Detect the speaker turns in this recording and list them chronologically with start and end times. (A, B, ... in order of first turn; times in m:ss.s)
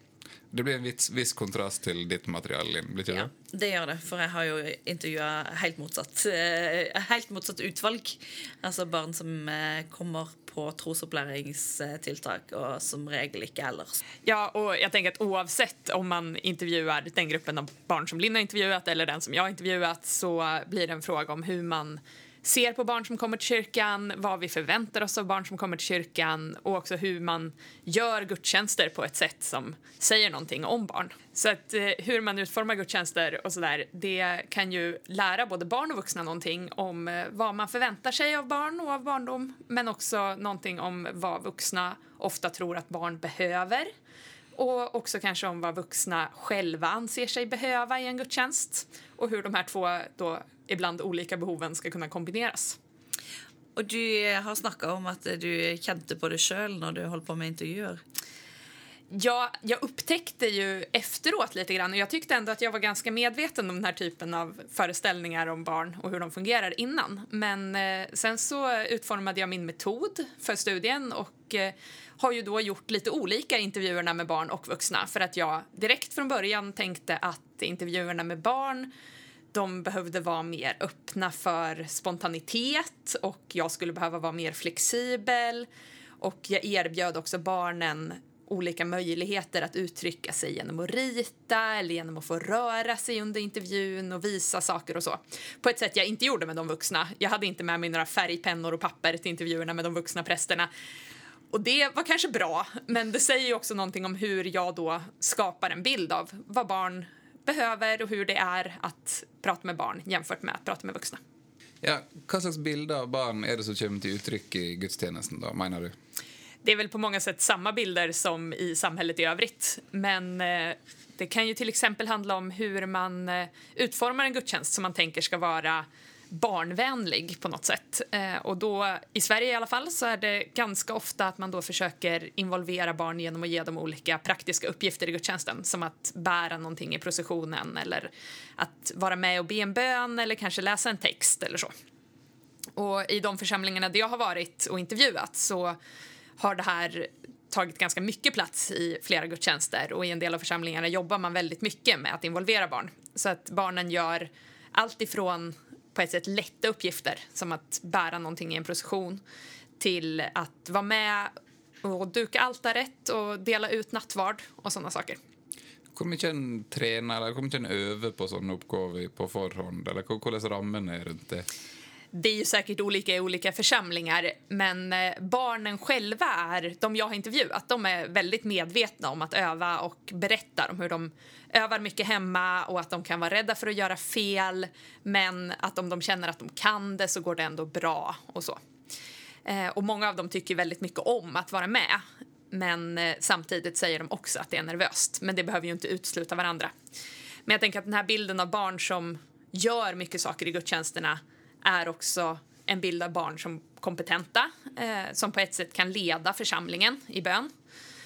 0:00.5-0:03.3 A
0:03.1-0:14.0 B
0:14.2-0:43.9 C
0:44.6-0:52.8 C
0:53.8-0:58.0 B
0:59.1-1:18.9 C
1:19.5-1:25.7 C
1:26.2-1:40.7 C
1:41.5-1:51.2 C
1:51.8-1:56.0 A
1:56.6-2:21.7 C
2:22.8-2:25.8 C
2:26.4-2:39.2 C
2:39.8-2:45.2 C
2:45.9-2:51.5 A
2:52.1-3:08.6 C
3:09.4-3:16.7 C
3:17.5-3:27.5 C